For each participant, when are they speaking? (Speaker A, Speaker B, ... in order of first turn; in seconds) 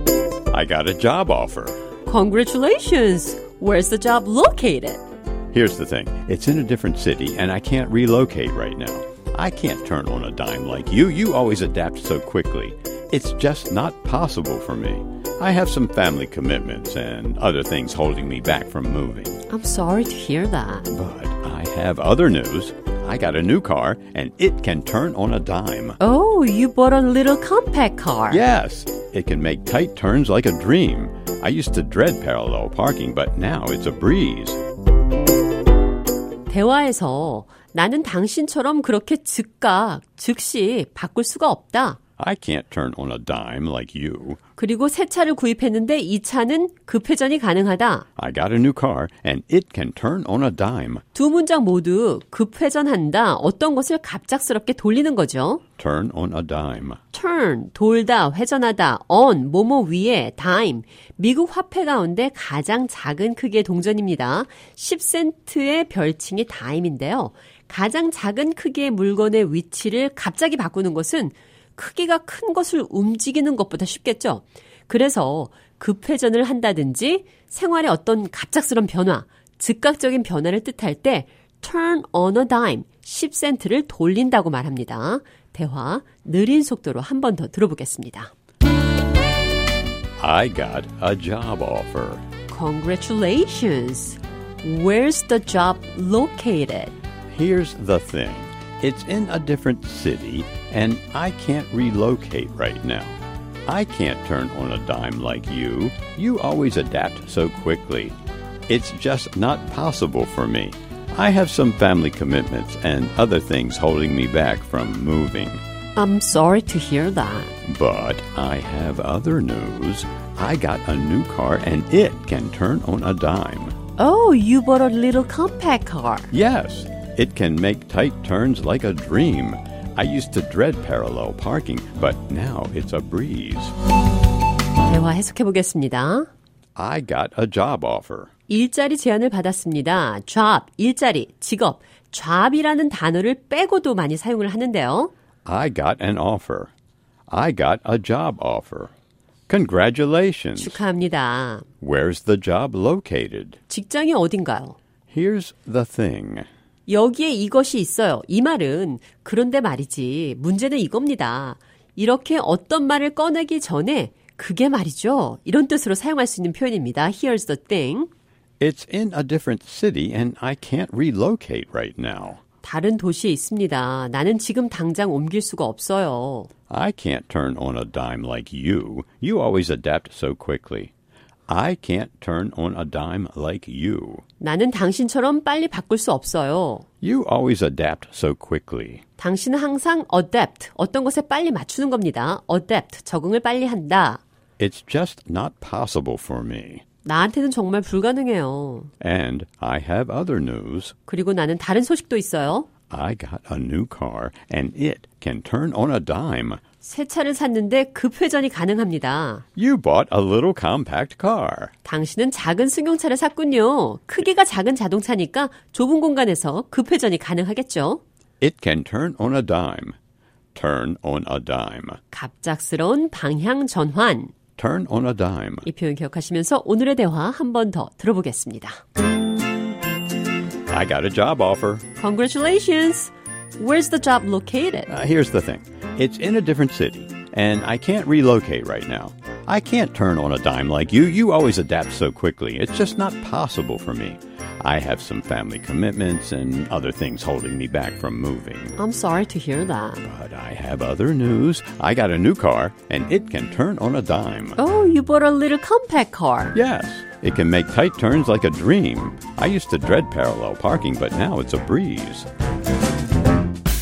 Speaker A: 0.5-1.8, 5.5-19.4, 20.9-26.0, 28.3-34.6, 42.2-44.4, 48.2-51.0, 55.8-57.0, 90.2-92.2, 97.3-108.2, 108.7-115.6, 117.7-123.8, 126.3-133.8, 136.8-138.3, 145.5-146.7, 147.3-148.9, 149.5-150.8, 151.8-153.6, 155.1-156.5, 168.6-172.4, 176.7-180.9, 181.5-184.2, 187.0-189.0, 194.6-196.8, 199.0-200.9, 202.9-206.6, 209.6-211.7, 218.4-220.0, 220.6-222.0, 224.6-225.7, 230.7-231.8, 234.9-248.8, 250.0-254.6, 256.6-262.3
Speaker B: 2.1-5.0, 19.5-20.9, 26.0-28.4, 36.5-42.0, 44.6-48.1, 51.1-55.6, 57.1-88.3, 92.5-96.9, 116.0-117.5, 124.0-126.3, 134.8-136.3, 138.5-145.1, 150.6-151.7, 153.7-154.8, 156.9-168.1, 172.6-176.5, 184.4-186.8, 189.2-194.2, 197.0-198.9, 201.1-202.7, 206.8-209.4, 211.8-218.0, 222.1-224.3, 225.7-228.8, 232.0-234.9, 248.8-250.0, 254.6-256.6